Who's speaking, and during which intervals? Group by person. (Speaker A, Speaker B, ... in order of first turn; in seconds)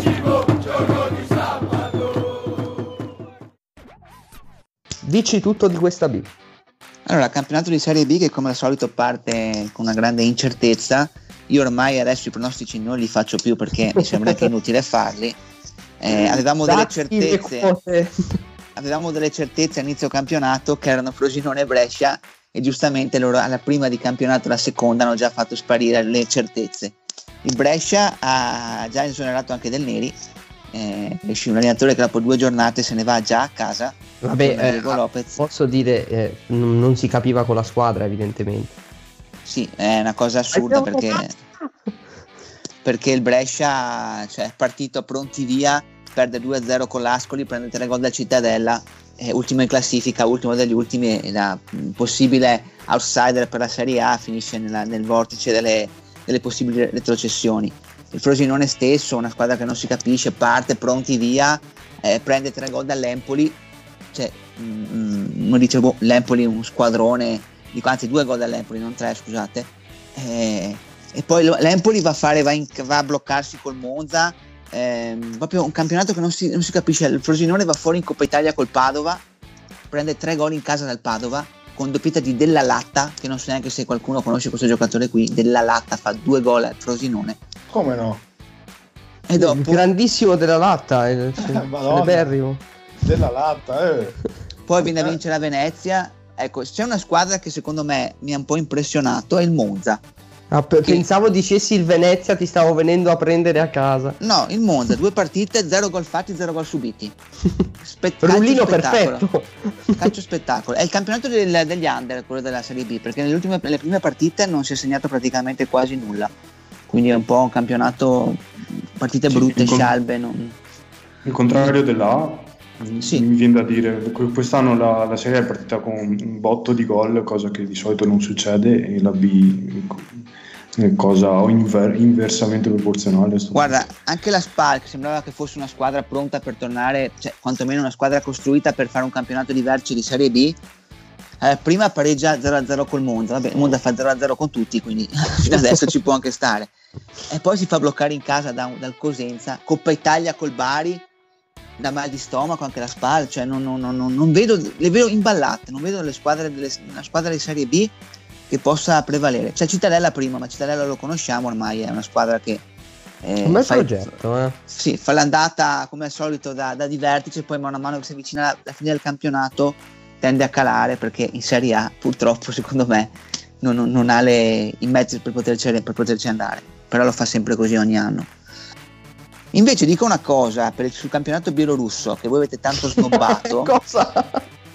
Speaker A: 5.0-6.3, 14.0-14.4, 16.1-18.4, 34.2-38.7, 40.5-41.2, 89.4-92.6, 100.5-104.2, 108.2-110.1, 163.4-164.6, 182.9-184.4
Speaker B: 7.1-15.4, 16.0-17.7, 18.8-30.1, 30.7-35.4, 39.4-41.3, 42.8-63.6, 64.1-79.2, 79.9-87.4, 89.3-89.8, 94.7-100.0, 104.2-107.1, 107.8-109.2, 110.0-116.3, 116.9-118.4, 119.0-120.5, 133.5-140.6, 141.4-146.7, 147.3-151.1, 151.8-157.9, 158.5-162.6, 163.2-163.9, 164.7-178.3, 179.5-183.7
Speaker C: 87.7-88.2, 91.4-92.3, 93.0-94.2, 94.9-95.1
Speaker D: 119.3-119.9, 121.2-133.9